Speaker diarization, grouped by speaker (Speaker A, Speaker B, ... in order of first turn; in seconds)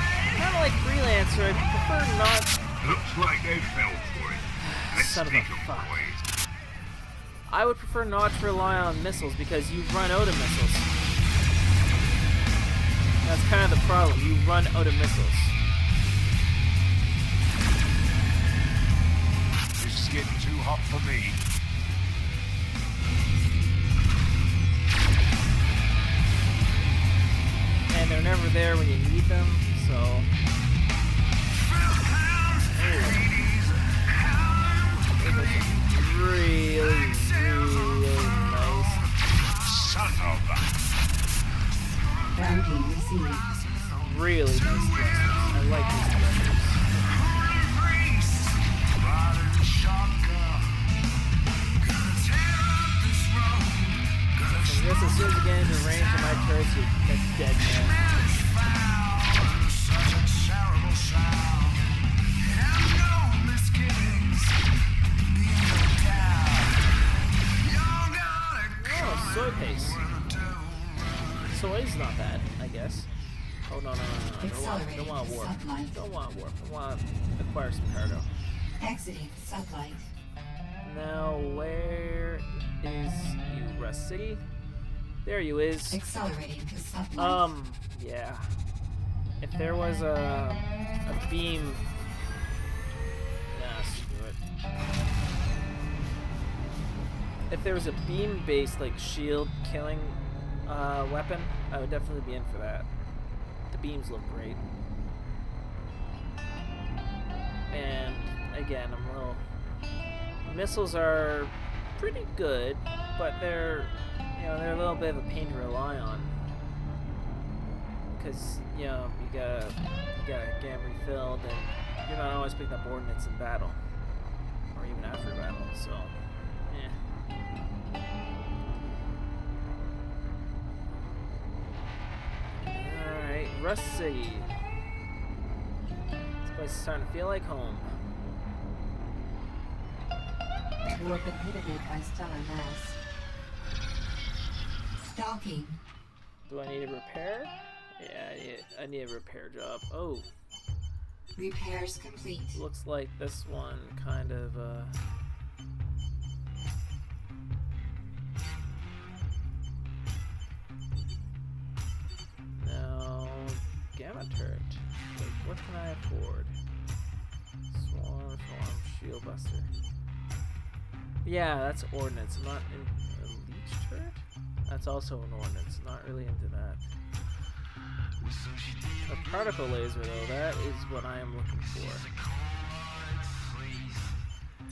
Speaker A: 0.3-2.6, 4.8-6.1, 7.5-10.9, 13.2-15.6, 27.9-30.3, 32.7-33.3, 35.1-39.1, 44.0-46.8, 54.4-58.0, 68.7-70.1, 71.5-73.1, 73.7-78.3, 80.8-84.4, 85.2-86.0, 87.2-88.4, 89.4-91.8, 93.5-94.4, 97.5-102.9, 103.7-104.6, 107.7-109.4, 110.4-116.3, 118.2-123.8, 124.7-126.2, 126.7-127.0, 132.7-134.5, 136.4-137.8, 146.5-150.3, 152.5-155.0, 162.6-166.5, 167.7-169.7, 171.2-176.8, 179.1-182.1
Speaker B: 2.8-6.2, 19.8-21.4, 39.7-40.6, 49.0-50.5, 63.3-64.3
Speaker C: 42.3-43.5, 74.4-76.0, 78.8-80.1, 85.9-87.5, 140.9-143.0, 145.0-145.8, 151.3-152.6